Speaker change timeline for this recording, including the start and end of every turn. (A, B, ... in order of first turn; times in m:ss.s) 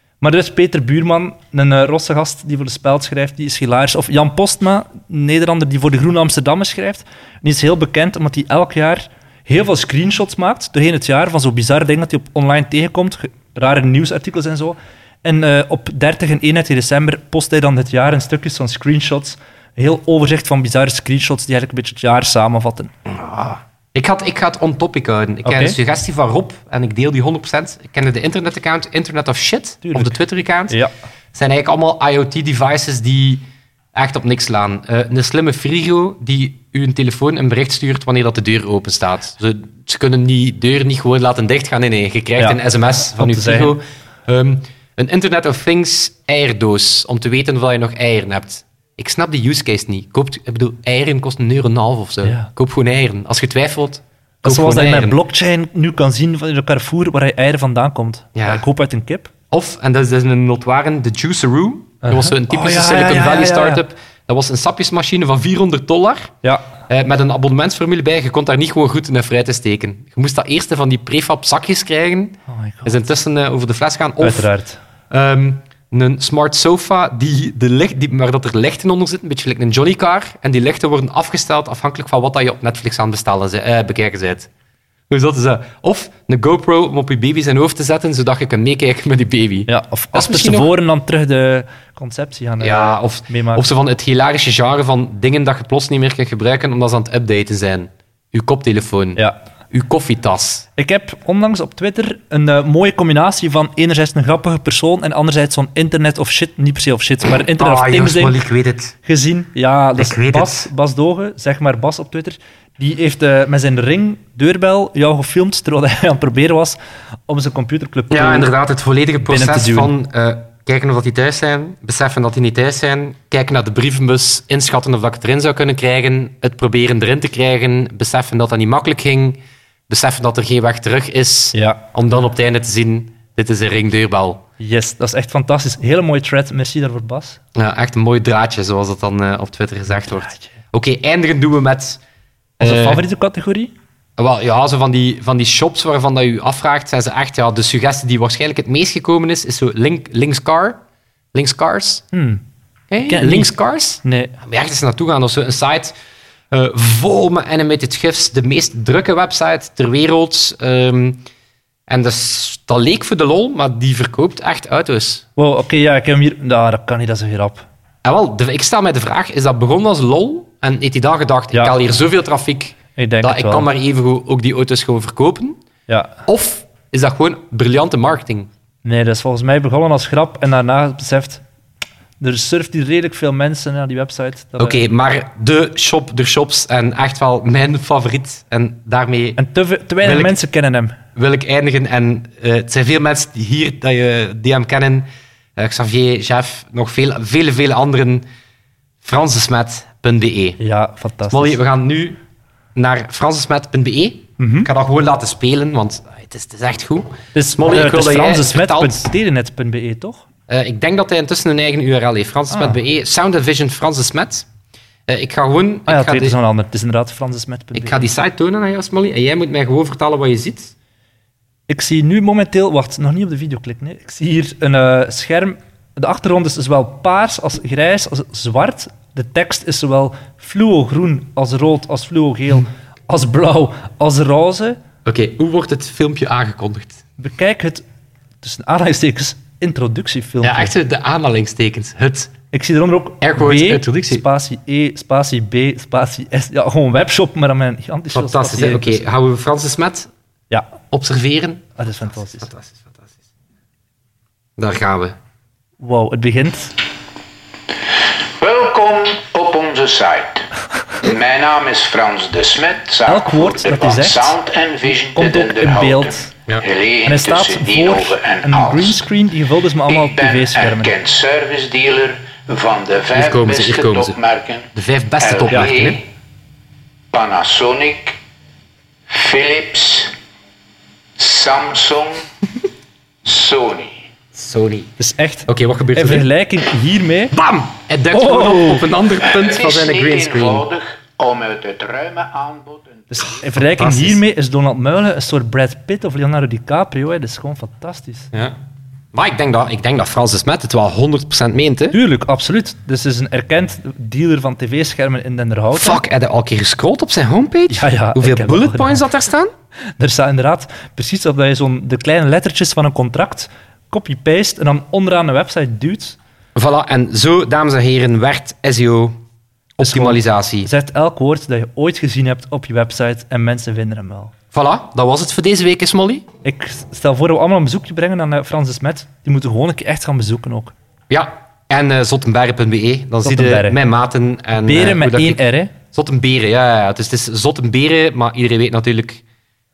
0:00.2-0:22.9 A
0:23.1-0:30.8 B
0:25.4-0:25.8 A
0:29.8-0:30.1 A
0:31.3-0:55.2 B
0:43.1-0:43.8 A
0:52.2-0:52.5 A
0:54.4-0:59.3 A
0:58.4-0:58.6 B
0:59.5-1:06.3 B
1:02.0-1:03.8 A
1:06.9-1:14.5 B
1:12.5-1:13.0 A
1:14.2-1:14.8 A
1:15.1-1:24.5 B
1:25.1-1:30.7 B
1:29.7-1:33.7 A
1:32.6-1:40.7 B
1:40.8-1:48.4 A
1:47.3-1:49.0 B
1:49.0-1:56.8 A
1:50.0-1:50.7 B
1:57.3-1:58.5 A
1:58.1-2:14.4 B
1:59.3-1:59.9 A
2:11.5-2:11.8 A
2:14.6-2:17.4 A
2:17.6-2:22.0 B
2:20.0-2:20.5 A
2:22.6-2:23.0 B
2:22.6-2:23.7 A
2:24.2-2:30.8 B
2:31.3-2:32.0 B
2:32.1-2:32.4 A
2:32.9-2:36.0 B
2:33.0-2:33.5 A
2:34.0-2:34.3 A
2:36.5-2:41.2 B
2:41.9-2:45.2 B
2:45.4-2:47.7 A
2:48.0-2:55.6 B
2:53.0-2:53.7 A
2:55.9-2:56.2 A
2:56.3-2:58.5 B
2:58.8-3:01.4 A
3:02.2-3:04.8 A
3:04.6-3:09.4 B
3:09.4-3:11.0 A
3:10.0-3:10.3 B
3:11.2-3:18.2 B
3:19.0-3:20.6 B
3:20.6-3:21.6 A
3:21.3-3:22.2 B
3:22.8-3:29.1 B
3:24.4-3:24.7 A
3:27.3-3:30.2 A
3:30.5-3:34.5 B
3:32.5-3:32.8 A
3:35.1-3:36.4 B
3:35.9-3:38.1 A
3:37.8-3:40.7 B
3:41.7-3:54.8 A
3:55.0-3:57.0 B
3:57.2-3:57.8 A
3:58.4-4:00.7 A
4:00.4-4:02.3 B
4:02.5-4:09.1 A
4:03.2-4:04.2 B
4:08.1-4:10.1 B
4:10.9-4:13.2 B
4:11.8-4:12.5 A
4:14.6-4:15.2 B
4:15.8-4:16.8 A
4:18.0-4:20.5 C
4:21.0-4:29.1 C
4:23.1-4:24.4 A
4:25.1-4:26.3 A
4:27.0-4:30.9 A
4:29.9-4:36.1 C
4:33.1-4:34.2 B
4:34.7-4:36.0 B
4:37.1-4:38.2 C
4:39.1-4:40.1 C
4:41.2-4:42.3 C
4:43.2-4:44.1 C
4:44.3-4:44.9 B
4:45.0-4:47.4 A
4:45.5-4:46.3 B
4:47.3-4:50.6 B
4:48.1-4:48.9 A
4:49.2-4:53.4 C
4:53.1-4:58.3 A
4:53.5-4:54.2 B
4:59.1-5:02.0 B
5:01.9-5:06.0 A
5:05.7-5:09.5 B
5:07.7-5:09.0 A
5:10.0-5:16.2 A
5:16.6-5:19.2 B
5:19.8-5:20.7 B
5:19.8-5:24.3 A
5:24.5-5:26.2 B
5:26.4-5:30.7 A
5:31.1-5:39.2 B
5:33.2-5:33.8 A
5:34.7-5:35.7 A